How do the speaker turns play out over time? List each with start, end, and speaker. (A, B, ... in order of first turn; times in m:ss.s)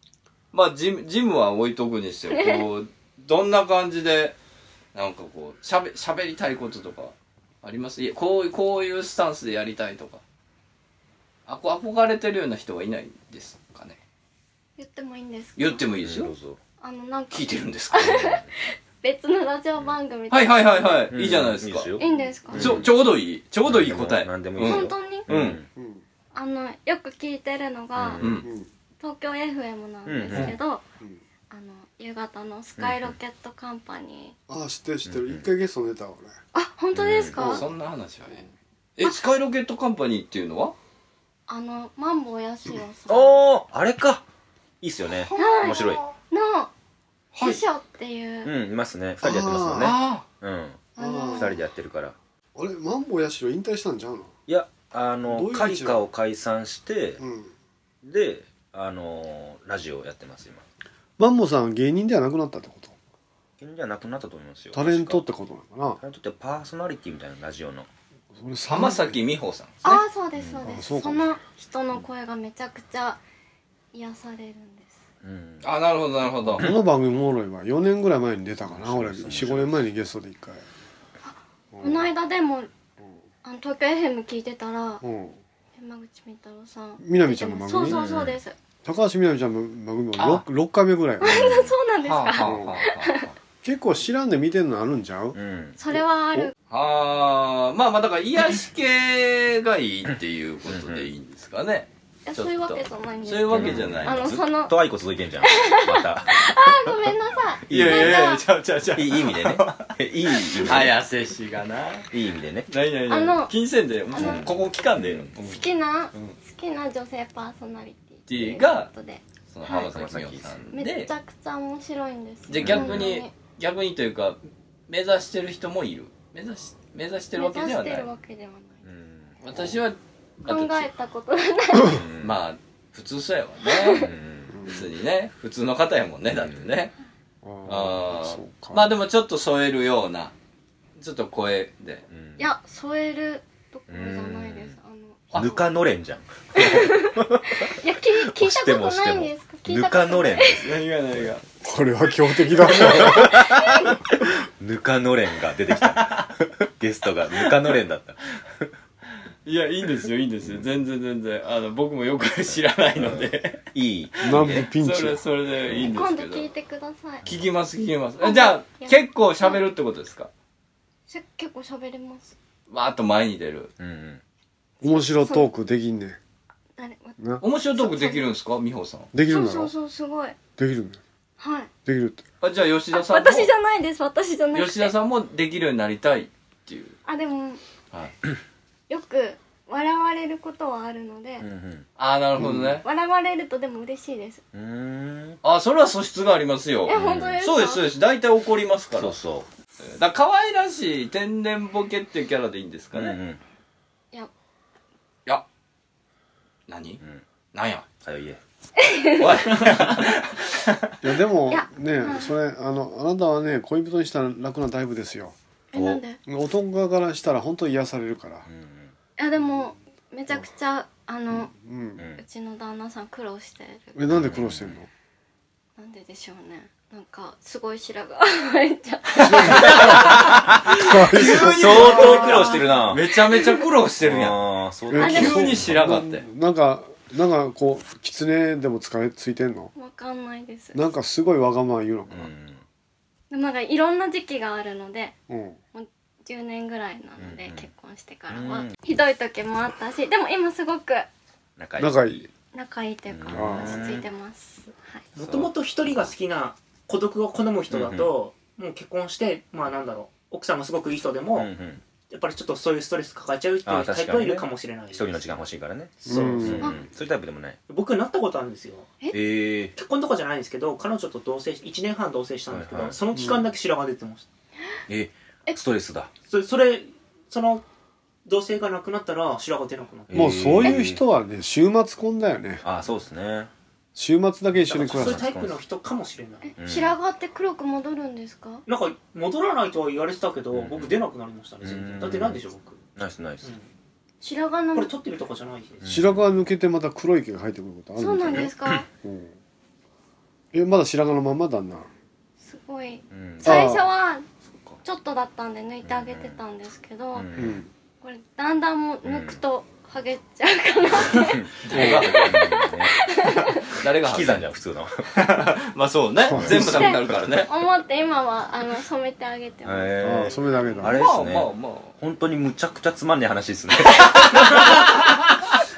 0:00.5-0:04.4 A
0:02.3-0:02.6 B
0:05.0-0:10.2 A
0:11.5-0:14.0 A
0:14.8-0:15.8 B
0:15.6-0:16.3 A
0:16.0-0:16.6 C
0:16.8-0:21.1 B
0:17.3-0:18.1 A
0:18.0-0:18.5 C
0:20.3-0:22.0 A
0:21.1-0:22.9 C
0:22.0-0:22.7 B
0:22.1-0:22.7 D
0:22.6-0:25.6 A
0:23.7-0:25.7 C
0:24.6-0:25.3 B
0:25.8-0:26.0 D
0:26.3-0:28.3 B
0:28.0-0:28.4 C
0:28.2-0:28.5 A
0:28.4-0:28.7 D
0:29.0-0:30.8 B
0:30.1-0:30.6 C
0:31.5-0:34.4 B
0:32.8-0:33.2 C
0:34.5-0:36.4 D
0:35.1-0:35.5 C
0:36.5-0:37.6 B
0:36.9-0:37.5 C
0:37.4-0:40.8 A
0:41.5-0:43.4 B
0:43.1-0:44.2 C
0:44.8-0:46.0 C
0:45.3-0:46.7 B
0:45.4-0:46.0 A
0:47.3-0:47.6 A
0:47.4-0:48.5 B
0:48.4-0:52.2 C
0:49.2-0:50.0 D
0:49.8-0:50.3 A
0:51.0-0:51.6 B
0:51.0-0:51.6 D
0:52.6-0:54.3 D
0:54.5-0:57.2 C
0:55.2-0:56.0 D
0:57.2-0:57.5 D
0:58.0-1:00.6 C
1:01.2-1:03.0 D
1:03.6-1:05.2 C
1:04.7-1:06.0 D
1:06.0-1:07.9 C
1:08.3-1:09.2 D
1:08.7-1:10.0 A
1:09.8-1:13.2 B
1:10.4-1:10.7 C
1:10.6-1:11.3 D
1:13.9-1:15.0 B
1:15.2-1:15.7 C
1:15.6-1:16.7 A
1:16.6-1:20.6 D
1:18.7-1:19.8 C
1:21.2-1:22.7 B
1:21.7-1:22.1 D
1:23.4-1:25.0 B
1:25.0-1:25.4 D
1:25.8-1:28.6 B
1:27.0-1:28.0 D
1:27.9-1:28.4 C
1:28.8-1:31.5 D
1:30.2-1:30.4 A
1:31.2-1:33.3 B
1:31.4-1:31.7 C
1:32.0-1:33.3 A
1:32.4-1:32.8 D
1:33.6-1:35.4 D
1:35.4-1:35.8 C
1:35.8-1:36.5 B
1:35.9-1:36.5 D
1:36.7-1:44.4 A
1:40.7-1:41.1 C
1:42.3-1:44.8 B
1:43.5-1:46.9 C
1:45.4-1:48.4 B
1:47.7-1:48.3 C
1:47.7-1:49.9 A
1:49.0-1:51.0 C
1:50.5-1:52.1 A
1:52.1-1:52.7 C
1:52.7-1:55.4 A
1:53.1-1:53.5 B
1:54.1-1:54.5 B
1:54.2-1:55.6 C
1:55.4-1:59.9 B
1:58.3-1:58.9 A
1:59.5-2:01.1 A
1:59.8-2:00.6 C
2:00.7-2:03.3 B
2:02.5-2:08.1 A
2:02.6-2:03.1 C
2:07.4-2:08.9 B
2:08.8-2:09.3 C
2:09.4-2:10.9 A
2:10.5-2:12.0 B
2:11.8-2:12.3 C
2:12.2-2:14.1 A
2:13.6-2:14.0 B
2:13.9-2:14.6 C
2:14.5-2:14.8 D
2:14.7-2:16.9 A
2:16.3-2:16.7 C
2:17.4-2:19.0 D
2:17.7-2:20.3 A
2:21.0-2:22.1 A
2:22.1-2:22.4 C
2:22.4-2:25.7 B
2:23.9-2:24.8 C
2:25.3-2:31.3 C
2:26.5-2:30.6 B
2:30.6-2:31.4 A
2:31.6-2:33.3 D
2:32.7-2:33.2 A
2:33.0-2:33.8 C
2:33.5-2:33.9 B
2:34.6-2:38.7 C
2:35.8-2:36.3 A
2:37.3-2:37.8 A
2:39.4-2:43.6 A
2:43.0-2:44.7 C
2:44.2-2:46.5 A
2:44.3-2:45.2 D
2:45.8-2:47.3 B
2:47.3-2:50.3 A
2:48.2-2:49.6 B
2:51.1-2:52.3 B
2:52.7-2:53.7 A
2:53.8-2:54.2 C
2:54.8-2:56.2 D
2:54.8-2:55.5 B
2:56.8-2:58.3 B
2:57.2-2:57.4 D
2:57.4-2:59.1 A
2:59.1-2:59.7 D
2:59.3-3:00.4 B
3:00.6-3:01.0 D
3:01.4-3:01.7 B
3:01.9-3:02.2 D
3:02.4-3:03.5 A
3:02.9-3:04.9 B
3:04.5-3:07.0 A
3:07.1-3:07.6 B
3:08.9-3:11.5 B
3:11.4-3:11.9 C
3:12.0-3:12.8 A
3:12.4-3:12.7 D
3:12.8-3:14.4 B
3:14.5-3:15.4 C
3:15.4-3:19.2 A
3:16.9-3:17.8 B
3:16.9-3:17.4 C
3:19.0-3:19.5 C
3:19.8-3:23.2 A
3:22.9-3:23.4 C
3:26.7-3:27.0 A
3:27.5-3:27.9 A
3:28.0-3:28.4 C
3:28.8-3:29.3 B
3:29.2-3:30.9 A
3:31.0-3:35.4 D
3:31.5-3:32.3 B
3:35.7-3:36.2 B
3:35.7-3:36.0 C
3:36.3-3:38.5 D
3:38.5-3:38.9 C
3:39.2-3:41.5 B
3:41.3-3:42.0 D
3:42.0-3:42.2 C
3:42.2-3:44.0 B
3:44.0-3:44.9 D
3:44.1-3:44.8 C
3:45.8-3:50.0 B
3:49.2-3:52.3 D
3:49.4-3:50.1 A
3:49.8-3:50.6 C
3:50.7-3:54.4 A
3:51.5-3:53.0 C
3:51.8-3:52.7 B
3:54.0-3:55.7 C
3:54.9-3:59.7 D
3:55.0-3:56.2 A
3:55.0-3:55.4 B
3:59.8-4:00.8 B
4:00.7-4:02.3 D
4:02.1-4:02.6 C
4:03.3-4:05.2 B
4:05.3-4:05.6 D
4:05.7-4:11.1 B
4:07.2-4:07.7 C
4:08.3-4:08.8 C
4:11.6-4:12.3 C
4:11.8-4:12.3 D
4:12.5-4:15.1 B
4:13.1-4:14.1 C
4:13.3-4:13.8 D
4:15.2-4:21.5 E
4:15.2-4:15.5 C
4:17.7-4:18.1 C
4:21.3-4:21.8 C
4:22.1-4:25.2 E
4:23.6-4:27.6 C
4:26.0-4:26.7 E
4:26.1-4:26.7 D
4:27.7-4:29.0 E
4:29.1-4:29.8 C
4:29.8-4:34.3 E
4:32.5-4:33.0 C
4:34.9-4:36.1 C
4:36.3-4:37.6 E
4:38.3-4:40.5 E
4:40.1-4:41.0 C
4:40.1-4:42.6 D
4:42.6-4:43.5 C
4:44.0-4:45.2 D
4:44.7-4:46.5 E
4:44.7-4:45.6 C
4:46.4-4:48.6 B
4:46.6-4:47.0 C
4:48.7-4:52.8 E
4:50.5-4:51.0 C
4:51.6-4:52.4 C
4:53.0-4:53.5 C
4:54.2-4:54.9 B
4:54.7-4:55.9 E
4:55.8-4:56.3 C
4:55.9-4:58.5 D
4:58.0-4:58.9 B
4:59.0-4:59.3 D
5:00.5-5:01.9 D
5:02.4-5:04.3 B
5:03.1-5:03.8 C
5:03.4-5:03.8 D
5:04.8-5:07.3 B
5:05.8-5:06.4 C
5:07.2-5:07.6 C
5:07.4-5:07.7 D
5:08.0-5:13.6 B
5:09.0-5:09.4 C
5:11.0-5:12.9 C
5:11.6-5:12.4 A
5:11.7-5:12.0 D
5:13.7-5:14.5 A
5:14.0-5:15.1 C
5:15.1-5:17.5 A
5:16.3-5:17.0 D
5:16.3-5:16.6 C
5:16.5-5:20.7 B
5:19.6-5:24.5 C
5:20.0-5:21.0 D
5:20.8-5:22.0 A